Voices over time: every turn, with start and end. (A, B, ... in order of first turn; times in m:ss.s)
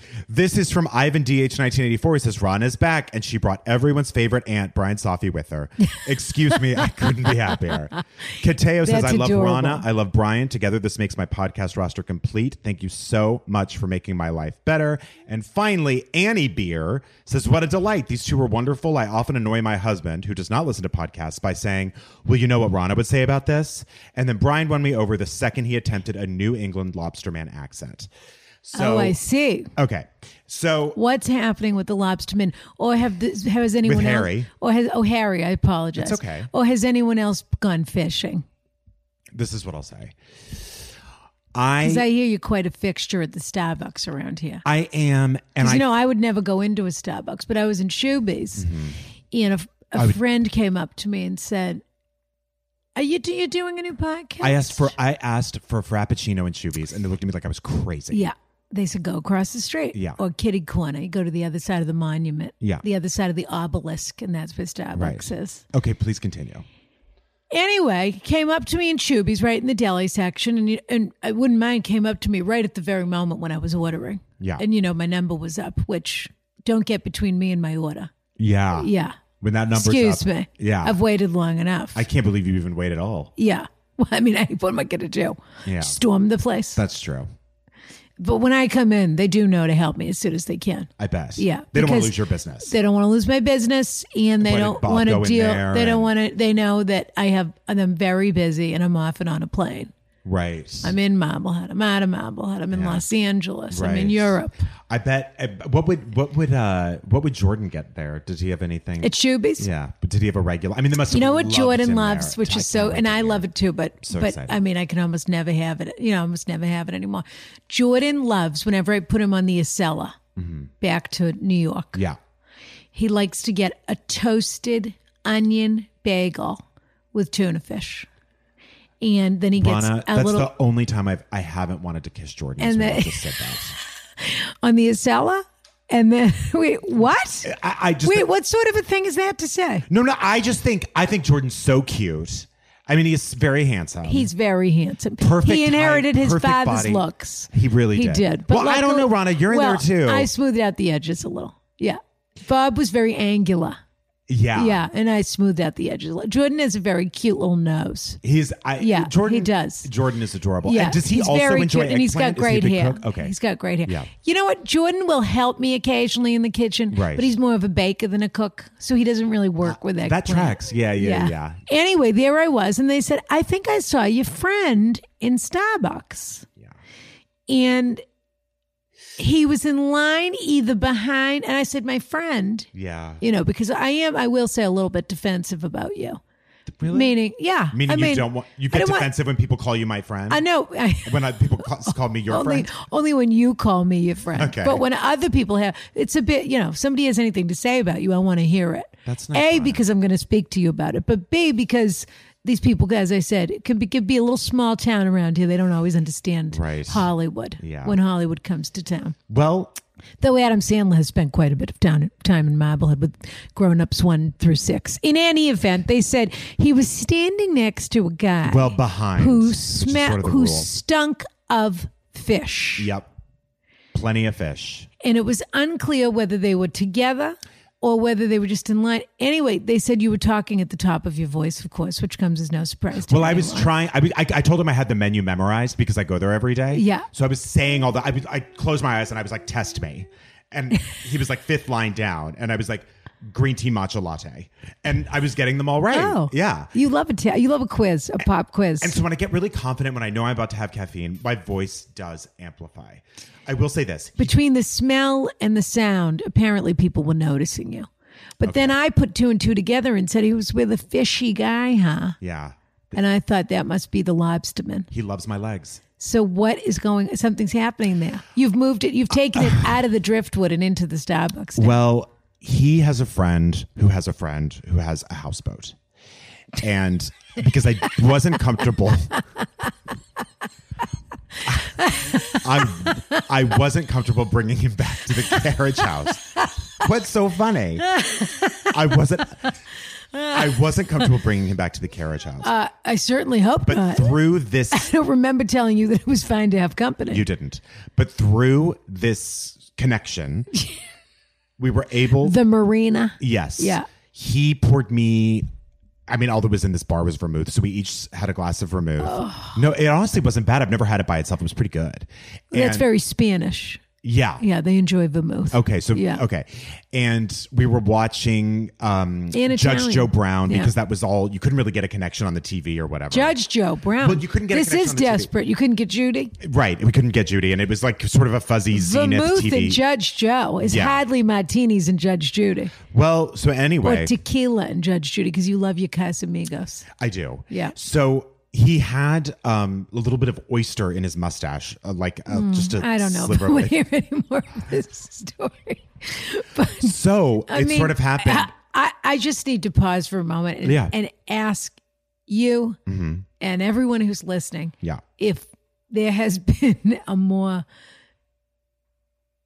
0:00.3-0:28.1 A
0:08.8-0:09.8 B
0:28.6-0:29.2 A
0:28.7-0:29.7 B
0:29.8-0:31.0 A
0:31.0-0:38.4 B
0:33.8-0:34.5 A
0:36.0-0:36.5 A
0:39.3-0:40.2 A
0:41.5-0:42.0 A
0:41.8-0:44.6 B
0:44.6-0:45.9 A
0:45.6-0:48.7 B
0:48.6-0:49.0 A
0:49.3-0:51.8 B
0:49.9-0:50.2 A
0:53.0-0:54.9 B
0:54.4-0:58.3 A
0:58.1-1:05.6 B
0:59.9-1:00.2 A
1:04.9-1:06.6 A
1:07.5-1:18.1 B
1:18.4-1:21.0 A
1:18.7-1:19.2 B
1:19.7-1:22.0 B
1:21.9-1:23.3 A
1:23.4-1:26.8 B
1:25.6-1:26.0 A
1:26.7-1:27.3 A
1:28.2-1:39.9 B
1:31.0-1:32.7 A
1:34.4-1:36.1 A
1:40.2-1:40.9 A
1:40.8-1:44.7 B
1:42.7-1:43.0 A
1:43.7-1:44.4 A
1:44.9-1:53.5 A
1:49.0-1:49.7 B
1:51.1-2:00.2 B
1:54.0-1:54.6 A
2:00.4-2:00.7 A
2:00.8-2:02.0 B
2:02.9-2:08.1 B
2:09.0-2:10.5 B
2:09.6-2:13.7 A
2:12.6-2:13.6 B
2:14.2-2:19.8 B
2:17.4-2:18.2 A
2:19.9-2:24.3 A
2:24.0-2:33.8 B
2:25.2-2:30.3 A
2:34.3-2:34.8 A
2:34.5-2:38.2 B
2:38.2-2:43.3 A
2:38.8-2:39.9 B
2:40.6-2:56.4 B
2:46.9-2:47.3 A
2:49.6-2:51.6 A
2:57.5-2:58.0 B
2:59.2-3:02.7 B
3:02.7-3:03.2 A
3:03.2-3:06.2 B
3:06.7-3:07.2 A
3:06.9-3:09.1 B
3:07.7-3:10.4 A
3:10.3-3:29.2 B
3:11.0-3:12.7 A
3:14.4-3:14.8 A
3:19.0-3:19.8 A
3:26.5-3:28.0 A
3:29.3-3:29.8 A
3:30.2-3:42.9 B
3:38.4-3:40.7 A
3:42.8-3:43.1 A
3:43.9-3:44.9 A
3:45.0-3:53.7 B
3:53.0-4:06.7 A
3:56.7-3:57.1 B
4:05.9-4:09.0 B
4:08.8-4:14.3 A
4:14.2-4:17.9 B
4:18.4-4:22.2 B
4:18.4-4:18.7 A
4:22.2-4:22.6 A
4:22.9-4:24.9 B
4:24.9-4:25.8 A
4:26.0-4:31.8 B
4:29.4-4:29.7 A
4:31.6-4:35.8 A
4:36.5-4:39.2 A
4:41.4-4:48.0 A
4:41.6-4:43.0 B
4:47.9-4:48.3 B
4:48.6-4:49.5 A
4:50.3-4:52.5 A
4:52.4-4:54.2 B
4:53.6-4:54.9 A
4:54.7-4:57.2 B
4:57.1-5:00.5 A
5:01.6-5:02.4 A
5:02.2-5:03.8 B
5:03.2-5:05.5 A
5:06.1-5:12.8 A
5:09.0-5:09.6 B
5:12.5-5:13.8 B
5:14.0-5:14.4 A
5:14.4-5:16.2 B
5:15.5-5:23.4 A
5:19.3-5:20.7 B
5:23.1-5:26.3 B
5:24.0-5:25.3 A
5:26.4-5:29.8 A
5:28.7-5:32.7 B
5:30.6-5:31.0 A
5:32.9-5:34.1 A
5:33.8-5:36.9 B
5:37.0-5:43.7 A
5:37.5-5:37.7 B
5:42.3-5:46.9 B
5:46.8-5:48.5 A
5:47.5-5:52.8 B
5:50.6-5:50.9 A
5:52.9-5:53.2 A
5:53.4-5:57.6 B